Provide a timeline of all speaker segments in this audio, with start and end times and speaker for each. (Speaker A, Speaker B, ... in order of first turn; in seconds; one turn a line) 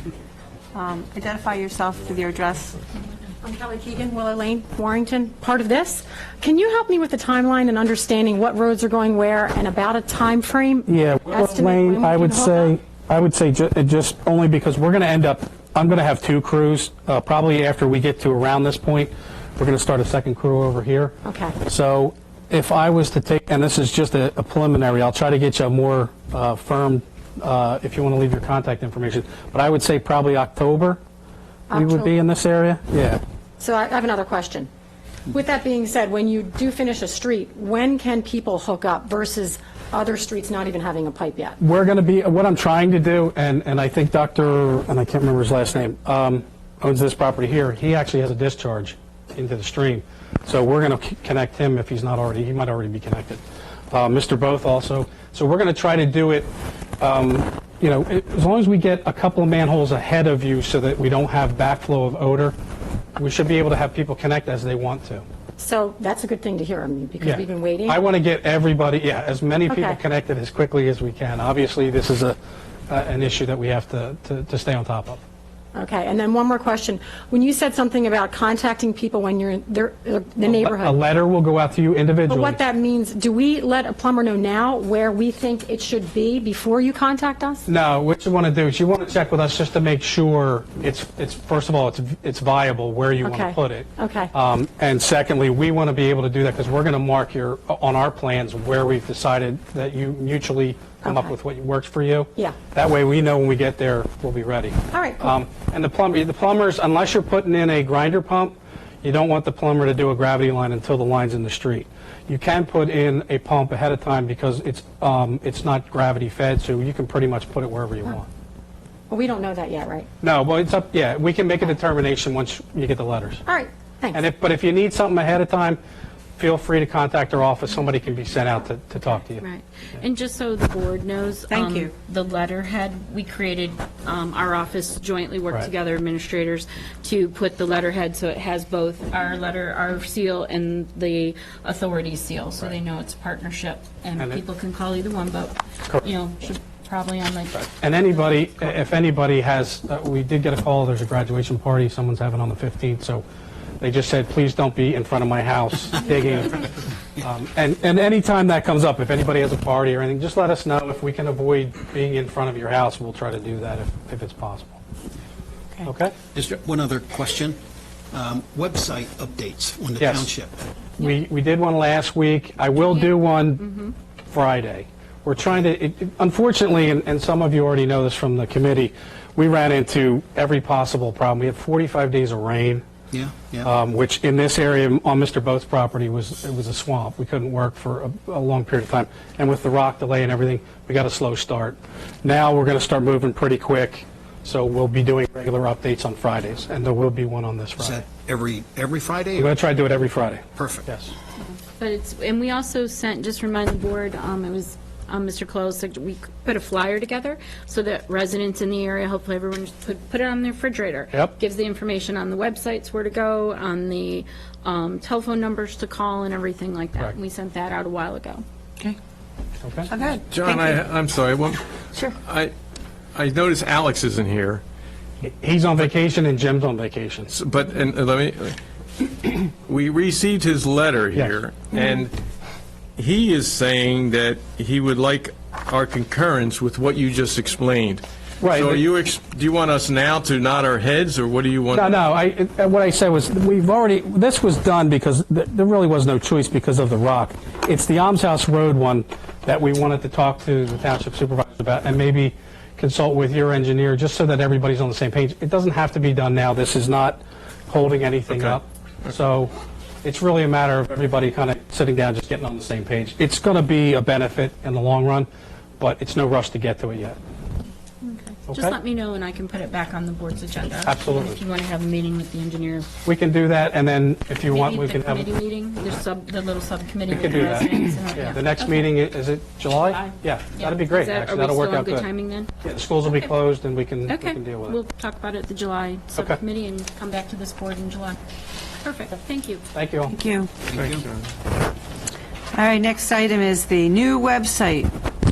Speaker A: 0.7-2.8
Speaker B: 3.4-12.7
Speaker C: 10.9-31.0
Speaker B: 21.2-21.6
Speaker B: 31.7-32.1
Speaker C: 31.7-33.2
Speaker B: 33.6-34.7
Speaker B: 35.3-41.6
Speaker C: 41.6-62.5
Speaker C: 63.2-65.2
Speaker B: 65.6-68.0
Speaker C: 67.2-72.4
Speaker B: 69.7-70.0
Speaker C: 72.9-75.2
Speaker B: 75.8-81.0
Speaker C: 80.4-82.6
Speaker B: 82.3-87.7
Speaker C: 87.7-118.3
Speaker B: 93.2-94.3
Speaker B: 101.0-101.3
Speaker B: 104.9-105.3
Speaker B: 119.1-120.1
Speaker C: 120.2-123.4
Speaker B: 123.5-124.2
Speaker C: 124.1-125.8
Speaker C: 126.4-129.4
Speaker D: 129.4-147.7
Speaker A: 131.5-131.9
Speaker C: 147.8-153.2
Speaker C: 153.8-164.8
Speaker C: 165.8-166.2
Speaker E: 166.3-167.6
Speaker E: 168.1-170.5
Speaker C: 170.0-170.3
Speaker C: 171.0-173.8
Speaker C: 174.3-182.9
Speaker E: 183.1-183.7
Speaker C: 183.6-198.0
Speaker E: 197.8-199.6
Speaker C: 199.4-201.1
Speaker E: 200.6-200.8
Speaker D: 201.8-218.4
Speaker C: 219.6-219.9
Speaker A: 219.9-220.8
Speaker F: 220.3-222.5
Speaker F: 223.1-224.6
Speaker C: 225.2-227.3
Speaker F: 227.3-228.6
Speaker F: 229.1-232.1
Speaker F: 233.0-242.0
Speaker C: 238.4-238.8
Speaker C: 241.7-259.5
Speaker C: 260.0-265.3
Speaker C: 265.8-267.2
Speaker D: 268.0-272.9
Speaker C: 268.5-268.8
Speaker C: 270.9-271.4
Speaker C: 273.1-275.3
Speaker D: 274.5-278.9
Speaker C: 277.1-282.1
Speaker D: 279.7-282.5
Speaker C: 282.6-284.8
Speaker D: 284.1-288.2
Speaker C: 286.1-286.4
Speaker D: 288.8-289.6
Speaker C: 289.7-290.1
Speaker A: 290.1-290.5
Speaker E: 290.7-291.1
Speaker F: 290.7-291.1
Speaker A: 292.5-294.9